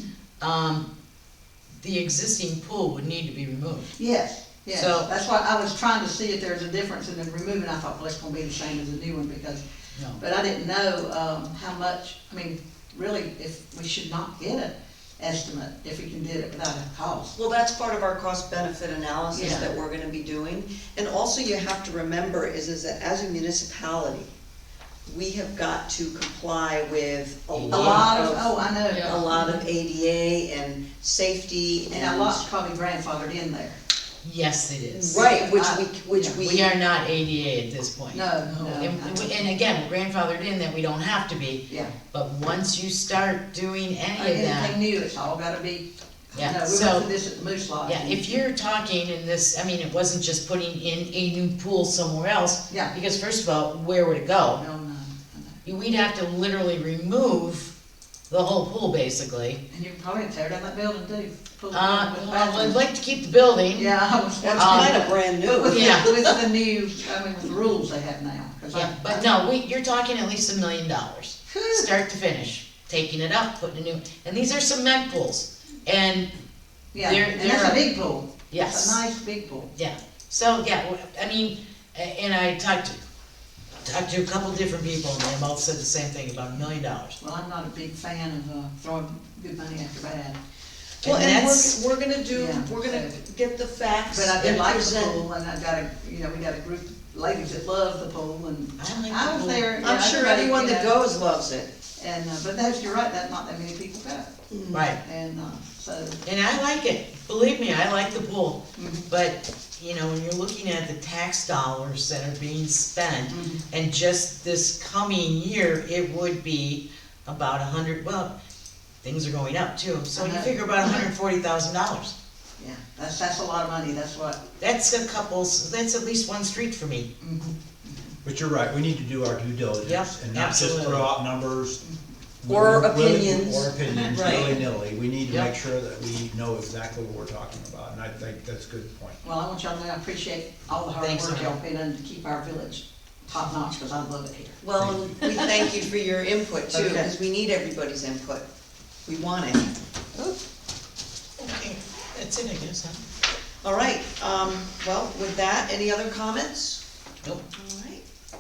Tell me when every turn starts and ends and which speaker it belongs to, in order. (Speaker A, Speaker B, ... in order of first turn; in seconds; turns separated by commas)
Speaker A: 0.4-0.9, Speaker A: 1.8-3.9, Speaker B: 4.0-9.6, Speaker A: 4.7-5.1, Speaker A: 9.9-10.2, Speaker B: 10.2-17.4, Speaker C: 17.4-24.3, Speaker B: 19.3-19.7, Speaker A: 19.4-19.6, Speaker C: 25.1-32.5, Speaker A: 27.5-28.1, Speaker B: 27.7-29.6, Speaker B: 31.9-33.8, Speaker A: 34.2-35.3, Speaker C: 34.9-36.7, Speaker B: 35.1-36.4, Speaker A: 36.4-44.7, Speaker B: 38.1-39.4, Speaker B: 41.7-41.9, Speaker B: 44.2-48.3, Speaker A: 46.3-47.1, Speaker A: 47.9-54.6, Speaker B: 52.7-53.0, Speaker B: 54.6-55.6, Speaker A: 55.6-57.7, Speaker A: 58.3-59.6, Speaker B: 59.7-62.8, Speaker A: 61.7-63.9, Speaker B: 63.7-69.2, Speaker C: 64.4-66.4, Speaker A: 64.6-65.0, Speaker A: 65.7-66.1, Speaker A: 68.7-76.3, Speaker B: 71.5-71.9, Speaker B: 76.9-79.7, Speaker A: 77.0-77.8, Speaker A: 78.5-79.0, Speaker A: 79.8-83.0, Speaker A: 83.8-87.2, Speaker B: 87.2-90.4, Speaker A: 91.0-91.8, Speaker C: 91.0-95.2, Speaker B: 92.3-93.2, Speaker B: 94.1-101.0, Speaker A: 98.8-99.7, Speaker C: 99.8-101.7, Speaker B: 102.0-104.4, Speaker C: 104.5-104.8, Speaker A: 104.7-105.0, Speaker B: 105.0-106.2, Speaker A: 106.2-118.3, Speaker B: 108.8-109.1, Speaker B: 113.3-113.6, Speaker A: 119.0-122.1, Speaker B: 120.2-121.1, Speaker B: 122.6-124.4, Speaker A: 124.6-127.1, Speaker B: 127.2-128.1, Speaker D: 128.2-131.8, Speaker A: 129.8-131.1, Speaker D: 132.4-139.2, Speaker C: 132.5-134.6, Speaker B: 139.2-144.6, Speaker A: 141.0-141.5, Speaker C: 144.6-148.4, Speaker D: 144.8-145.1, Speaker B: 146.7-147.1, Speaker C: 149.1-149.8, Speaker A: 151.4-153.0, Speaker C: 153.6-156.8, Speaker C: 157.5-158.0